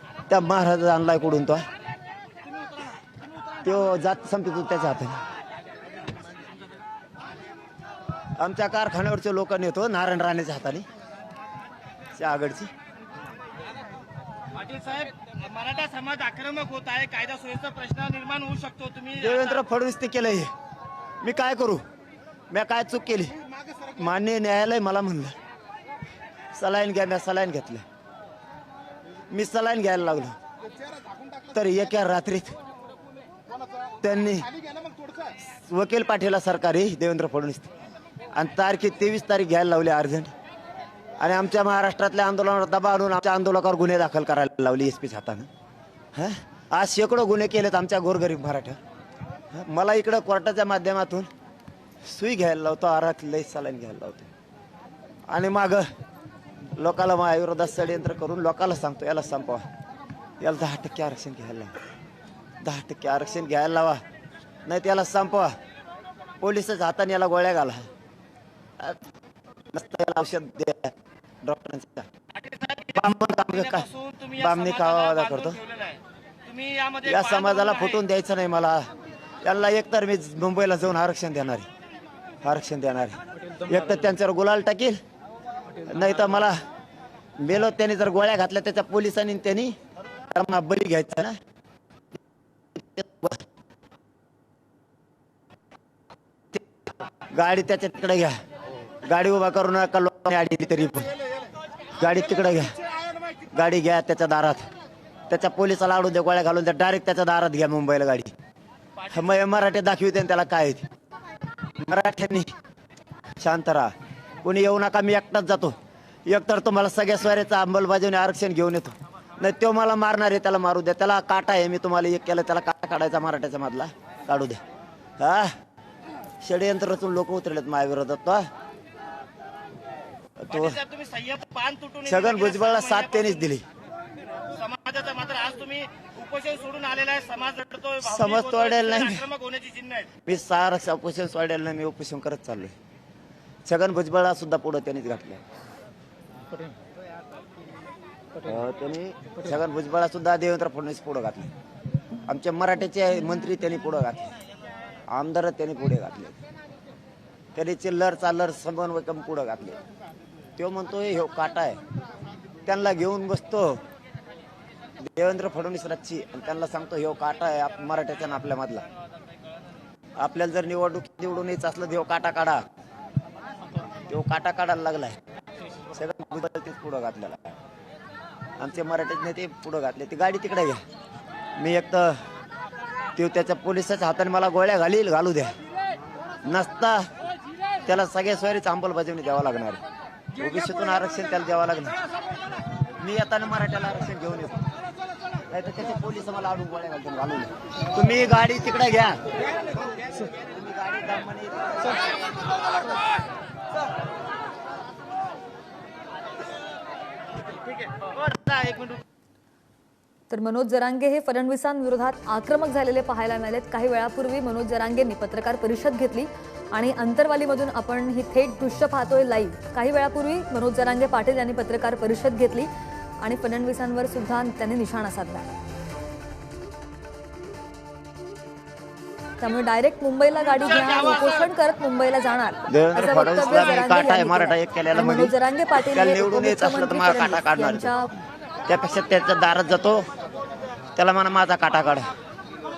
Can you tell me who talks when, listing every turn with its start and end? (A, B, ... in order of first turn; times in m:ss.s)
0:00.3-0:01.7 A
0:03.6-0:05.2 A
0:08.4-0:10.8 A
0:12.1-0:12.7 A
0:14.5-0:19.5 B
0:19.2-0:20.5 A
0:21.2-0:21.8 A
0:22.5-0:23.4 A
0:23.9-0:25.3 A
0:26.5-0:27.8 A
0:29.3-0:30.3 A
0:31.5-0:32.6 A
0:34.0-0:34.5 A
0:35.4-0:37.7 A
0:38.3-0:40.3 A
0:41.2-0:45.5 A
0:46.1-0:48.8 A
0:49.5-0:51.3 A
0:52.0-0:54.3 A
0:55.3-0:55.9 A
0:56.8-0:59.7 A
1:00.4-1:01.7 A
1:02.6-1:04.0 A
1:04.6-1:05.5 A
1:06.4-1:07.9 A
1:08.8-1:09.0 A
1:09.7-1:12.1 A
1:12.4-1:12.9 B
1:12.9-1:15.6 A
1:13.5-1:18.0 B
1:17.0-1:18.8 A
1:19.4-1:21.7 A
1:22.4-1:25.0 A
1:25.8-1:26.6 A
1:27.4-1:29.8 A
1:30.3-1:31.4 A
1:32.7-1:33.4 A
1:37.3-1:38.4 A
1:39.0-1:41.1 A
1:42.0-1:42.8 A
1:43.5-1:44.7 A
1:45.3-1:48.3 A
1:49.1-1:50.8 A
1:51.8-1:52.5 A
1:53.4-1:53.9 A
1:54.4-2:04.6 A
2:05.2-2:05.5 A
2:06.4-2:08.4 A
2:10.4-2:10.8 A
2:10.5-2:13.4 B
2:12.0-2:13.6 A
2:14.5-2:20.1 B
2:18.0-2:19.3 A
2:20.2-2:22.7 A
2:23.6-2:25.4 A
2:28.4-2:31.5 A
2:32.3-2:34.3 A
2:35.1-2:36.4 A
2:37.5-2:39.8 A
2:40.6-2:41.8 A
2:42.6-2:43.8 A
2:45.0-2:48.8 A
2:50.2-2:52.6 A
2:54.1-2:55.2 A
2:55.9-2:57.6 A
2:58.6-3:00.8 A
3:01.6-3:02.2 A
3:03.2-3:05.5 A
3:06.4-3:07.0 A
3:07.8-3:09.8 A
3:10.4-3:11.9 A
3:13.0-3:14.7 A
3:15.5-3:19.2 A
3:20.4-3:22.0 A
3:28.3-3:28.9 B
3:30.3-3:45.5 C
3:49.4-3:58.1 C
3:52.7-3:57.9 A
3:58.7-4:00.1 A
4:00.9-4:02.1 A